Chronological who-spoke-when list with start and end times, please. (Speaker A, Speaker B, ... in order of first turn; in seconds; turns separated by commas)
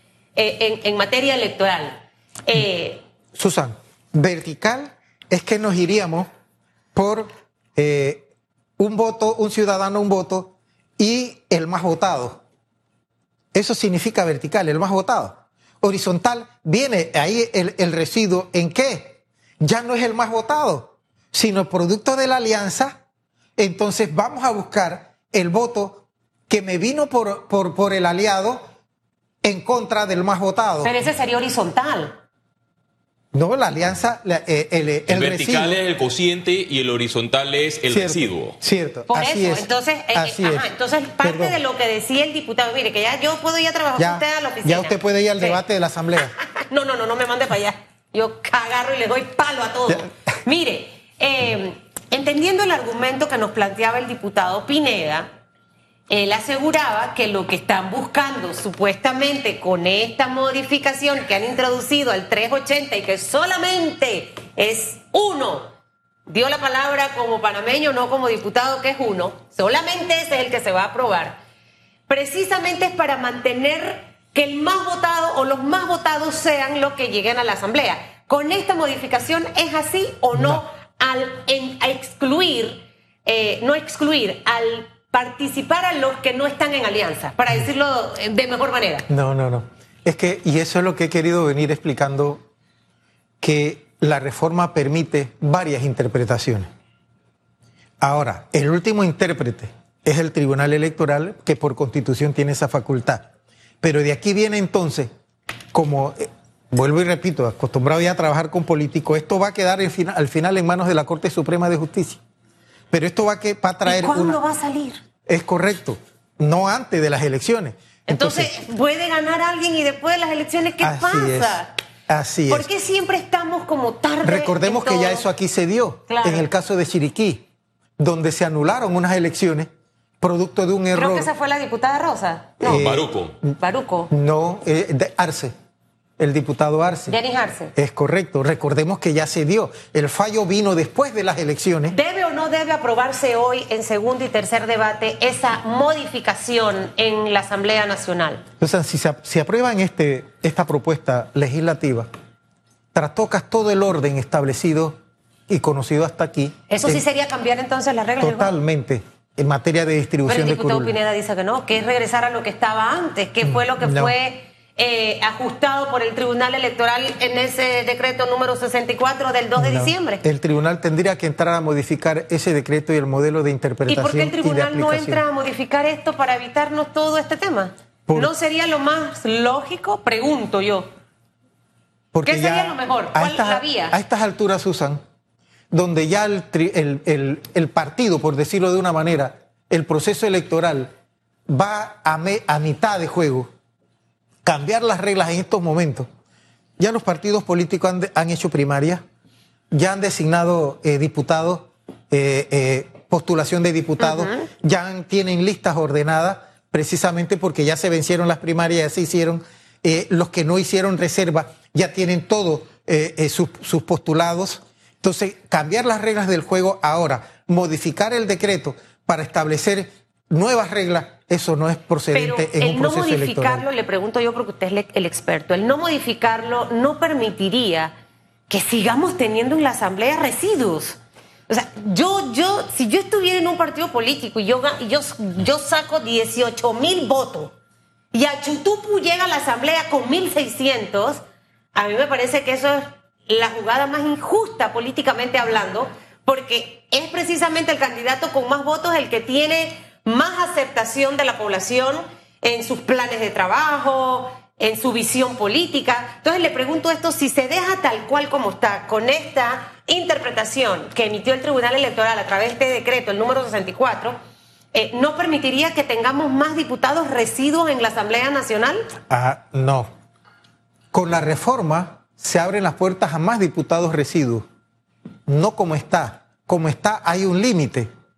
Speaker A: 0.4-3.0, Speaker B: 3.4-6.3, Speaker B: 7.0-8.2, Speaker B: 8.8-12.4, Speaker B: 13.5-23.0, Speaker B: 23.6-28.6, Speaker B: 29.4-30.9, Speaker A: 30.8-32.2, Speaker B: 33.3-35.8, Speaker C: 35.1-38.6, Speaker B: 37.9-40.7, Speaker A: 39.1-45.6, Speaker B: 41.2-41.6, Speaker B: 44.0-46.3, Speaker A: 46.4-55.3, Speaker A: 56.1-65.7, Speaker A: 66.3-71.4, Speaker A: 72.1-89.1, Speaker B: 80.3-80.6, Speaker B: 89.1-92.4, Speaker B: 93.4-96.7, Speaker B: 98.0-103.3, Speaker B: 103.8-105.1, Speaker B: 105.7-112.2, Speaker B: 112.9-114.4, Speaker A: 113.8-115.0, Speaker B: 115.3-118.6, Speaker A: 118.1-121.7, Speaker B: 120.8-122.7, Speaker A: 122.5-125.2, Speaker B: 124.2-127.5, Speaker A: 126.1-126.5, Speaker B: 128.0-129.7, Speaker B: 130.2-131.3, Speaker A: 130.9-132.9, Speaker B: 132.6-133.5, Speaker C: 132.7-133.4, Speaker A: 133.6-134.1, Speaker B: 134.1-135.5, Speaker B: 136.2-137.2, Speaker A: 137.1-137.7, Speaker B: 137.8-142.0, Speaker A: 141.9-148.4, Speaker B: 148.6-152.1, Speaker B: 152.9-157.0, Speaker A: 156.7-158.6, Speaker B: 158.2-160.9, Speaker A: 160.3-170.2, Speaker B: 163.4-164.1, Speaker B: 169.6-175.2, Speaker A: 173.9-180.9, Speaker B: 178.1-178.3, Speaker B: 182.1-185.0, Speaker A: 182.2-184.0, Speaker B: 185.7-190.9, Speaker B: 191.5-193.5, Speaker B: 194.4-196.1, Speaker B: 196.8-199.0, Speaker B: 199.7-223.7, Speaker A: 204.0-204.5, Speaker A: 222.1-227.9, Speaker A: 228.5-231.0, Speaker A: 231.5-237.5, Speaker A: 238.1-241.2, Speaker A: 241.8-264.2, Speaker A: 264.7-268.9, Speaker B: 269.1-269.9, Speaker B: 270.9-274.5, Speaker B: 275.3-277.9